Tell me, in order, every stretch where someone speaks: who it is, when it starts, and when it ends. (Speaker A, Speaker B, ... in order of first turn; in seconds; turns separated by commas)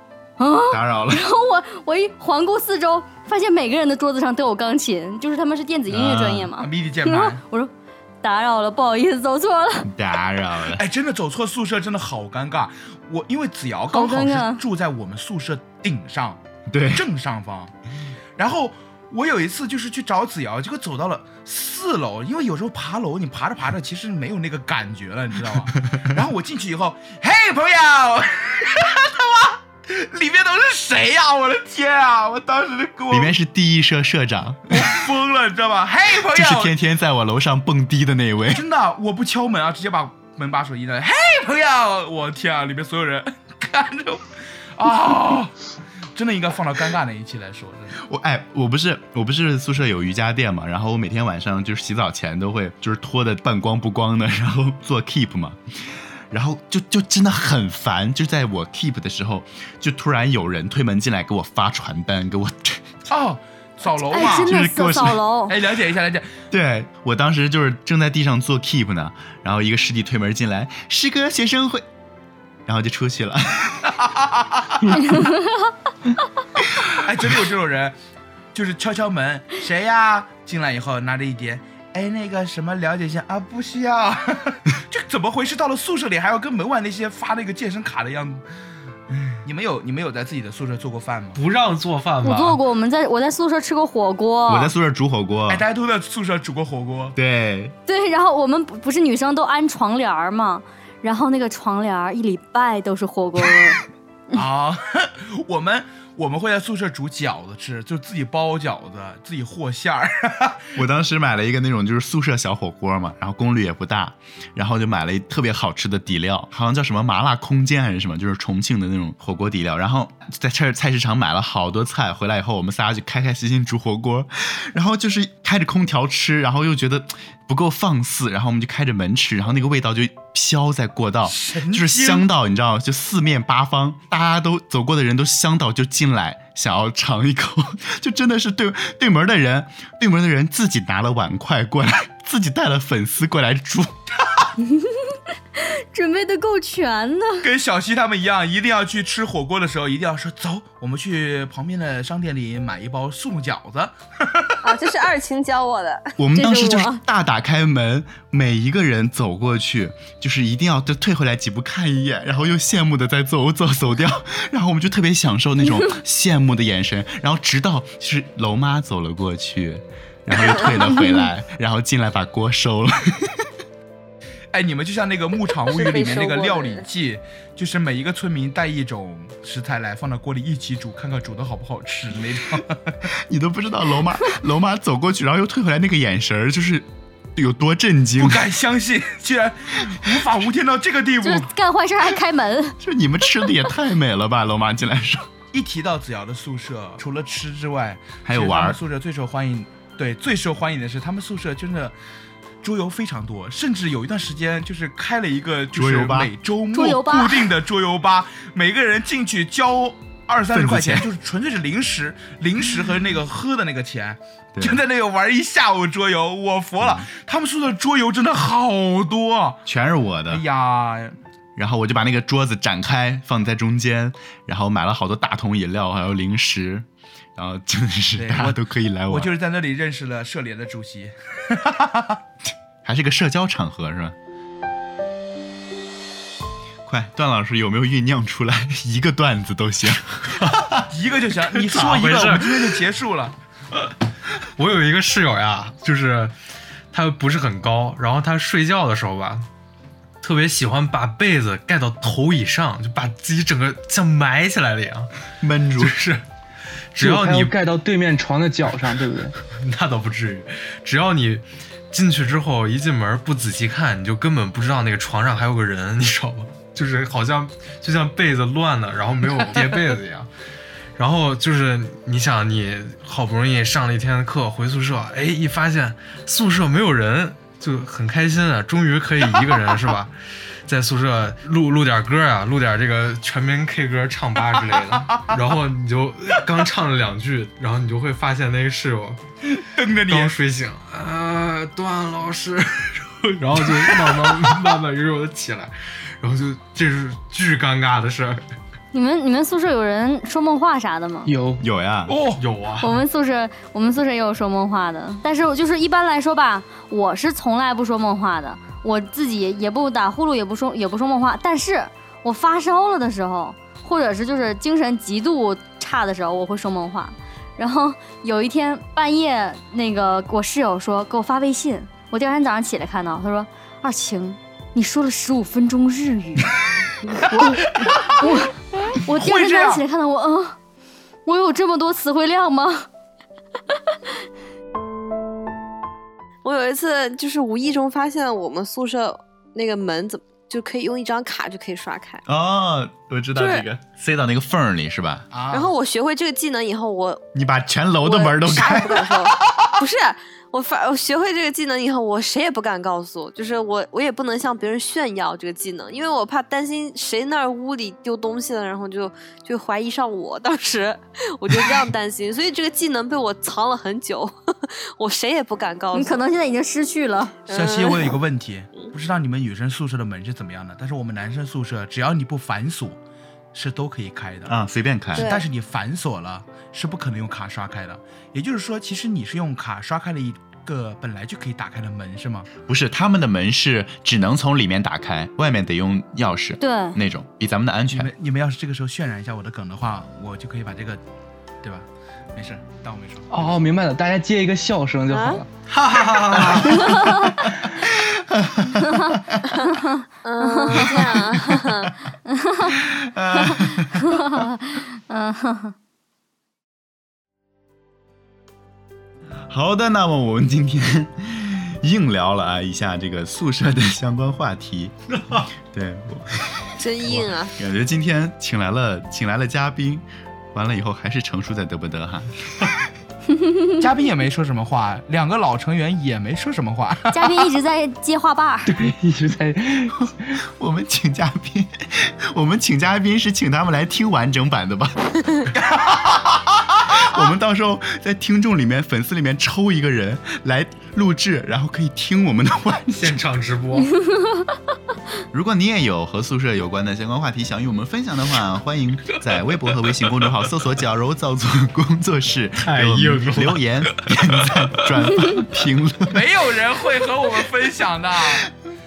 Speaker A: 0.4-7.7, Speaker B: 0.7-1.2, Speaker B: 5.9-6.4, Speaker C: 6.5-7.4, Speaker A: 8.2-9.9, Speaker B: 9.8-10.8, Speaker C: 10.7-17.7, Speaker A: 13.9-14.6, Speaker B: 16.7-17.1, Speaker C: 18.4-33.3, Speaker B: 33.1-35.0, Speaker C: 34.7-36.7, Speaker B: 36.3-38.6, Speaker C: 38.5-44.2, Speaker C: 44.8-45.5, Speaker C: 46.1-48.0, Speaker B: 48.0-55.6, Speaker B: 56.3-62.9, Speaker C: 63.1-64.6, Speaker A: 64.1-65.5, Speaker B: 64.4-65.2, Speaker C: 65.5-66.3, Speaker B: 66.5-71.8, Speaker B: 72.7-74.0, Speaker C: 74.0-75.0, Speaker A: 75.0-75.6, Speaker C: 76.9-77.9, Speaker C: 78.5-88.4, Speaker C: 89.1-91.4, Speaker D: 91.3-92.6, Speaker A: 92.2-94.7, Speaker B: 94.5-95.6, Speaker C: 95.5-97.2, Speaker B: 97.2-97.7, Speaker A: 97.9-103.8, Speaker C: 104.3-110.7, Speaker B: 110.8-143.9, Speaker C: 131.2-132.2, Speaker A: 144.6-147.5, Speaker C: 147.4-154.6, Speaker E: 154.6-156.1, Speaker B: 156.2-173.5, Speaker A: 156.3-157.0, Speaker C: 174.5-183.1, Speaker E: 175.7-176.8, Speaker B: 183.1-188.4, Speaker C: 188.2-191.5, Speaker A: 191.2-192.8, Speaker B: 192.8-195.3, Speaker C: 195.5-201.9, Speaker B: 198.2-198.8, Speaker C: 202.6-219.6, Speaker B: 205.7-206.3, Speaker A: 206.7-207.5, Speaker B: 210.5-211.1, Speaker B: 214.6-214.8, Speaker B: 216.8-217.1, Speaker B: 219.7-220.4, Speaker C: 220.3-221.2, Speaker B: 221.6-229.3, Speaker C: 228.2-232.2, Speaker B: 232.8-234.1, Speaker B: 236.8-240.8, Speaker C: 240.9-243.3, Speaker D: 241.6-242.6, Speaker D: 244.6-246.3, Speaker D: 246.9-249.4, Speaker D: 250.2-255.1, Speaker B: 255.4-255.9, Speaker D: 255.8-256.2, Speaker D: 256.9-257.5, Speaker F: 257.0-259.4, Speaker D: 259.5-270.3, Speaker D: 271.0-280.1, Speaker D: 280.6-289.2, Speaker C: 285.1-285.4, Speaker C: 289.5-290.3, Speaker D: 290.1-298.4, Speaker A: 298.9-301.3, Speaker F: 301.2-301.6, Speaker B: 301.6-302.1, Speaker C: 302.1-302.4, Speaker D: 302.4-303.0, Speaker A: 302.8-326.5, Speaker C: 327.2-328.4, Speaker A: 327.2-330.6, Speaker C: 329.1-329.8, Speaker A: 331.2-332.9, Speaker E: 336.4-342.2, Speaker B: 342.3-345.3, Speaker E: 343.4-343.6, Speaker C: 345.3-345.7, Speaker E: 345.5-347.2, Speaker B: 347.3-349.2, Speaker E: 348.0-366.2, Speaker A: 365.9-367.3, Speaker E: 367.5-368.2, Speaker C: 367.5-373.0, Speaker C: 373.5-374.5, Speaker B: 374.5-375.3, Speaker E: 375.1-375.5, Speaker C: 375.1-382.5, Speaker B: 382.7-388.1, Speaker A: 386.6-387.0, Speaker C: 387.9-391.0, Speaker C: 391.6-393.4, Speaker F: 393.3-395.5, Speaker E: 395.1-395.4, Speaker D: 395.7-396.9, Speaker A: 396.7-397.5, Speaker B: 397.9-399.4, Speaker A: 398.8-401.6, Speaker E: 400.2-402.0, Speaker A: 402.3-402.8, Speaker B: 402.8-404.1, Speaker A: 403.3-405.7, Speaker B: 409.5-414.9, Speaker D: 415.1-415.5, Speaker B: 415.7-422.5, Speaker E: 416.8-417.5, Speaker C: 423.8-427.4, Speaker A: 427.1-428.7, Speaker F: 428.6-430.4, Speaker B: 430.0-435.1, Speaker C: 435.5-436.2, Speaker C: 436.9-437.2, Speaker B: 436.9-443.2, Speaker D: 442.9-443.9, Speaker A: 444.1-444.5, Speaker B: 445.3-456.2, Speaker D: 452.6-454.9, Speaker C: 456.1-458.5